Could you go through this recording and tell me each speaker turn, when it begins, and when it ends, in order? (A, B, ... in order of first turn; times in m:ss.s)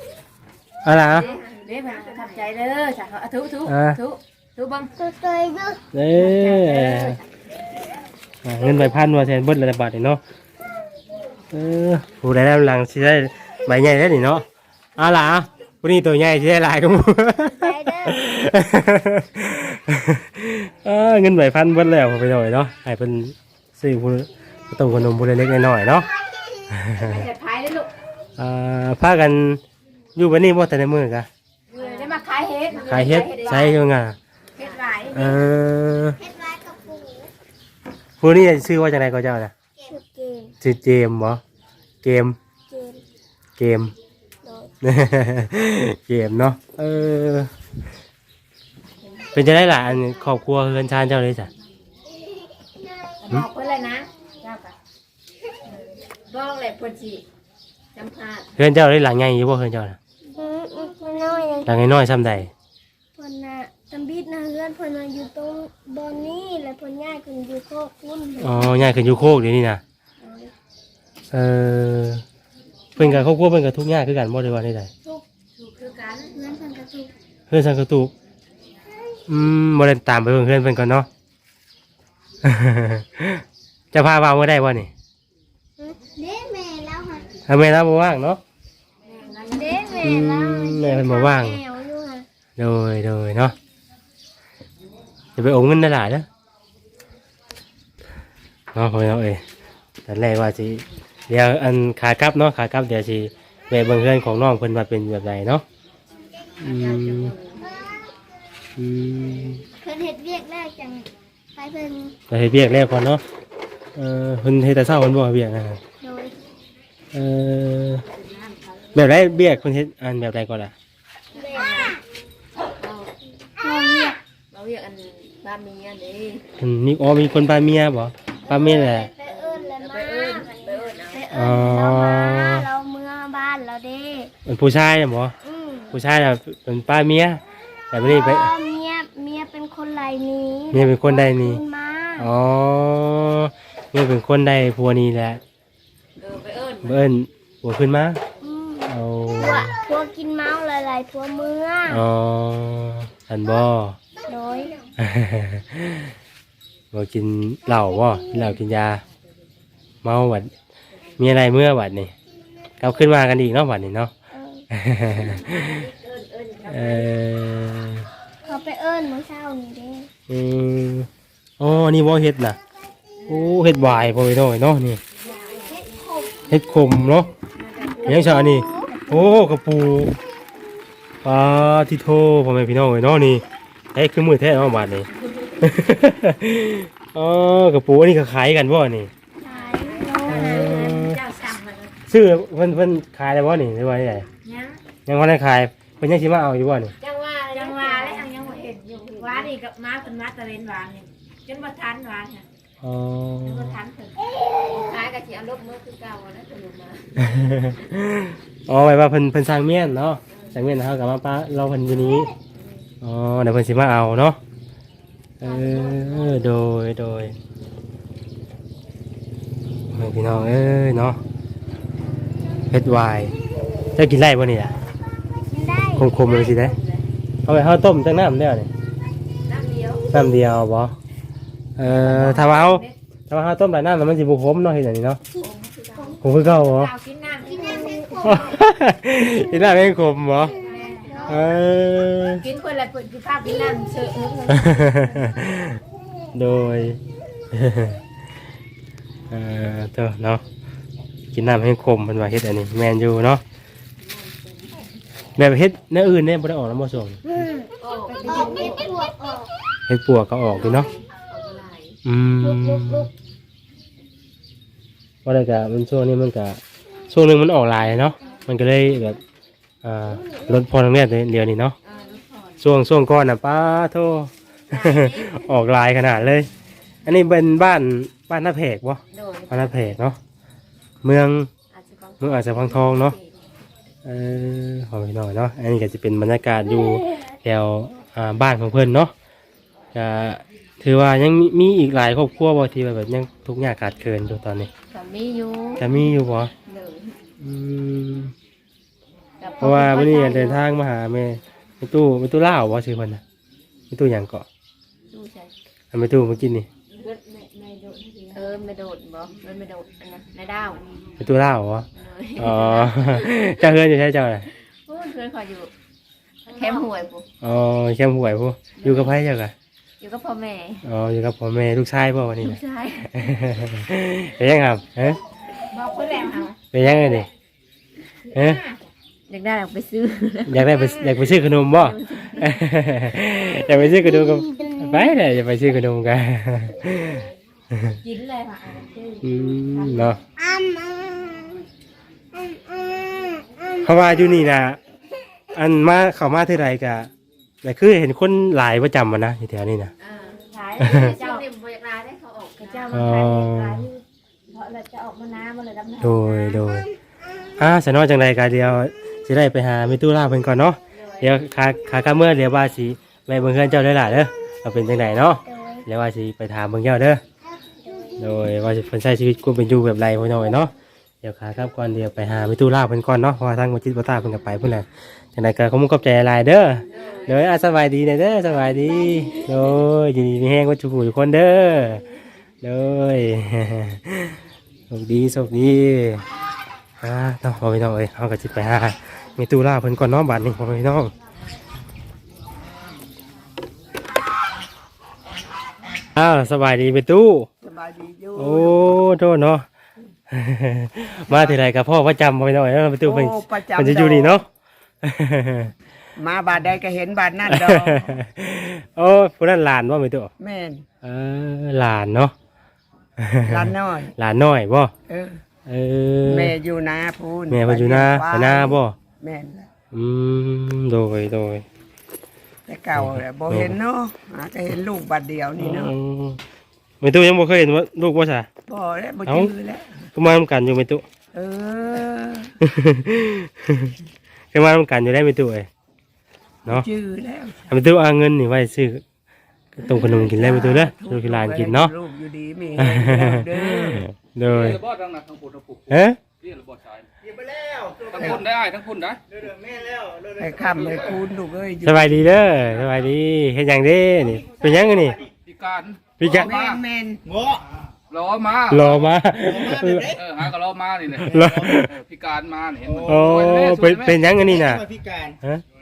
0:00.8-0:01.3 A
0:01.1-0:04.9 B
0:01.9-0:02.2 C
0:03.6-0:04.0 A
0:05.0-0:05.8 C
0:05.9-0:07.2 A
0:06.2-0:07.2 B
0:08.4-0:10.2 A
0:11.5-0:14.4 A
0:15.0-0:26.1 A
0:17.5-0:18.2 C
0:26.3-0:26.6 C
0:26.7-0:27.3 A
0:26.9-0:27.9 B
0:28.4-0:29.6 A
0:30.2-0:31.3 A
0:31.7-0:33.8 B
0:32.8-0:34.2 A
0:34.6-0:35.4 B
0:35.1-0:36.2 A
0:36.2-0:37.3 C
0:38.2-0:39.5 A
0:39.8-0:40.5 C
0:40.6-0:41.4 A
0:42.0-0:42.4 A
0:42.7-0:43.0 C
0:43.6-0:43.9 A
0:44.4-0:44.7 C
0:44.8-0:47.5 A
0:49.3-0:51.5 A
0:53.2-0:54.7 B
0:56.3-0:57.2 B
0:57.9-0:58.5 B
0:58.6-1:00.0 A
1:00.3-1:01.7 C
1:01.6-1:02.5 A
1:03.2-1:09.2 C
1:08.4-1:09.8 A
1:10.2-1:10.5 C
1:11.3-1:12.2 A
1:12.9-1:14.9 A
1:13.0-1:13.2 C
1:15.6-1:16.4 B
1:16.3-1:17.1 C
1:17.5-1:18.1 A
1:19.3-1:21.1 A
1:22.4-1:24.9 A
1:25.8-1:27.3 C
1:27.5-1:28.4 A
1:29.1-1:30.3 B
1:29.4-1:32.2 C
1:30.0-1:31.6 A
1:32.6-1:33.5 A
1:35.4-1:36.2 A
1:38.7-1:39.4 A
1:40.0-1:45.6 A
1:46.6-1:47.3 A
1:46.7-1:47.6 B
1:47.6-1:47.9 C
1:48.8-1:49.6 A
1:49.8-1:52.1 C
1:52.3-1:53.2 A
1:54.0-1:55.8 A
1:56.0-1:56.3 C
1:57.1-1:58.0 A
1:58.2-1:59.0 B
1:58.9-2:00.7 A
2:01.3-2:02.0 C
2:01.4-2:02.0 B
2:02.6-2:03.1 B
2:03.6-2:04.2 C
2:04.5-2:06.4 B
2:06.6-2:09.1 A
2:08.5-2:14.3 C
2:09.3-2:11.5 B
2:11.3-2:12.7 A
2:14.4-2:15.3 A
2:15.4-2:16.0 C
2:15.9-2:18.5 A
2:18.0-2:22.3 C
2:20.7-2:21.6 A
2:22.2-2:25.4 A
2:26.2-2:27.0 B
2:26.8-2:28.2 A
2:28.4-2:32.0 C
2:28.9-2:29.8 A
2:31.9-2:34.0 A
2:34.2-2:34.8 C
2:35.0-2:36.1 A
2:36.9-2:39.0 A
2:38.1-2:38.5 C
2:40.0-2:40.5 A
2:41.2-2:42.1 A
2:42.8-2:44.1 A
2:44.3-2:44.6 C
2:44.7-2:45.9 A
2:45.0-2:47.1 B
2:46.7-2:48.1 A
2:48.4-2:50.1 C
2:50.3-2:51.1 A
2:51.6-2:52.6 A
2:53.3-2:55.0 A
2:55.2-2:55.9 B
2:55.7-2:56.3 C
2:56.5-2:57.3 A
2:57.6-2:58.7 B
2:57.8-2:59.4 C
2:58.0-3:00.2 A
3:01.2-3:03.4 A
3:03.9-3:05.1 A
3:05.6-3:09.1 A
3:09.4-3:11.9 B
3:09.4-3:11.0 C
3:10.2-3:11.2 A
3:12.1-3:14.2 A
3:14.4-3:14.8 B
3:15.0-3:16.9 A
3:17.0-3:22.4 B
3:17.5-3:18.3 C
3:22.8-3:23.8 A
3:23.4-3:24.1 B
3:24.6-3:27.2 B
3:27.2-3:32.3 A
3:30.3-3:30.6 B
3:32.5-3:32.8 B
3:33.0-3:34.4 A
3:35.4-3:37.3 A
3:35.4-3:36.5 B
3:39.9-3:41.2 A
3:42.7-3:43.3 A
3:43.9-3:44.8 A
3:45.4-3:46.5 C
3:46.0-3:46.7 A
3:46.1-3:47.0 B
3:47.4-3:48.7 A
3:49.5-3:50.0 B
3:50.1-3:50.9 A
3:51.8-3:55.2 A
3:51.8-3:52.9 B
3:55.3-3:56.2 C
3:55.4-3:58.3 B
3:56.2-3:56.9 A
3:57.4-3:58.6 C
3:58.2-4:00.5 A
4:00.3-4:01.4 C
4:00.6-4:01.4 B
4:01.3-4:02.4 A
4:02.4-4:05.0 B
4:03.4-4:03.9 C
4:04.5-4:05.8 A
4:06.3-4:07.0 A
4:07.5-4:08.0 A
4:09.3-4:10.4 A
4:11.3-4:13.4 A
4:14.1-4:14.8 B
4:15.4-4:17.2 A
4:17.3-4:19.5 C
4:17.8-4:19.1 B
4:19.9-4:20.9 A
4:20.5-4:22.0 B
4:22.0-4:23.1 A
4:22.4-4:23.1 C
4:25.2-4:29.2 A
4:29.8-4:31.8 A
4:31.8-4:32.5 B
4:32.6-4:36.5 A
4:34.7-4:35.5 B
4:37.0-4:40.2 A
4:39.1-4:40.0 B
4:41.0-4:41.5 A
4:41.7-4:43.3 B
4:42.2-4:43.2 A
4:44.0-4:49.1 A
4:49.9-4:54.7 A
4:54.9-4:56.0 B
4:55.8-4:56.5 A
4:56.6-4:57.1 B
4:57.4-4:58.3 A
4:59.4-5:00.6 B
4:59.6-5:03.2 A
5:03.9-5:04.4 A
5:05.1-5:05.5 B
5:05.9-5:06.7 A
5:06.9-5:10.9 B
5:11.2-5:14.5 A
5:12.0-5:13.6 B
5:14.8-5:15.7 B
5:16.4-5:17.3 B
5:17.4-5:19.5 A
5:18.8-5:19.1 B
5:20.0-5:20.8 B
5:20.8-5:22.6 A
5:22.4-5:23.2 B
5:23.1-5:25.2 A
5:25.7-5:26.6 B
5:26.7-5:27.3 A
5:28.3-5:30.7 B
5:28.3-5:28.6 A
5:30.5-5:38.0 A
5:30.7-5:31.0 C
5:31.7-5:32.6 B
5:33.8-5:35.1 C
5:38.0-5:40.1 B
5:39.2-5:40.2 A
5:40.4-5:41.6 C
5:42.3-5:43.9 C
5:43.8-5:44.8 A
5:45.5-5:47.1 A
5:47.6-5:49.9 A
5:50.0-5:54.0 B
5:50.8-5:51.2 A
5:50.9-5:51.4 C
5:52.9-5:53.9 A
5:54.5-5:56.6 B
5:56.0-5:56.8 A
5:57.6-6:07.2 A
6:00.9-6:01.4 B
6:05.4-6:05.8 C
6:07.7-6:08.4 C
6:08.2-6:22.0 A
6:16.9-6:17.4 B
6:22.6-6:24.4 A
6:24.9-6:26.2 A
6:27.0-6:31.1 A
6:36.1-6:37.5 A
6:37.6-6:39.0 D
6:38.4-6:39.6 A
6:40.3-6:44.5 A
6:41.3-6:41.6 D
6:43.0-6:44.4 D
6:45.0-6:45.7 A
6:46.2-6:48.2 D
6:47.5-6:50.3 A
6:50.4-6:50.8 D
6:51.0-6:52.3 A
6:53.2-6:54.9 A
6:53.4-6:54.1 D
6:55.1-6:55.4 D
6:55.6-6:56.5 A
6:56.2-6:59.7 D
6:57.5-6:58.9 A
6:59.9-7:01.6 A
7:02.7-7:05.9 D
7:02.9-7:03.7 A
7:05.6-7:06.4 A
7:07.0-7:08.5 A
7:08.7-7:10.1 D
7:09.2-7:09.5 A
7:10.1-7:11.0 A
7:11.3-7:12.5 D
7:12.6-7:13.9 A
7:14.5-7:15.7 A
7:16.6-7:17.7 D
7:17.7-7:19.0 A
7:19.7-7:21.9 A
7:19.8-7:24.0 D
7:22.8-7:24.8 A
7:24.4-7:27.1 E
7:25.9-7:26.2 A
7:27.2-7:28.4 F
7:28.1-7:29.2 E
7:29.3-7:31.2 F
7:30.4-7:32.3 D
7:31.8-7:35.2 A
7:34.2-7:35.3 F
7:35.4-7:36.8 E
7:36.2-7:36.5 A
7:36.2-7:37.2 D
7:37.2-7:37.6 F
7:38.1-7:39.0 E
7:38.7-7:40.1 A
7:39.3-7:40.4 F
7:40.1-7:44.2 E
7:41.1-7:41.8 F
7:41.2-7:41.9 A
7:42.8-7:45.4 F
7:43.0-7:44.8 A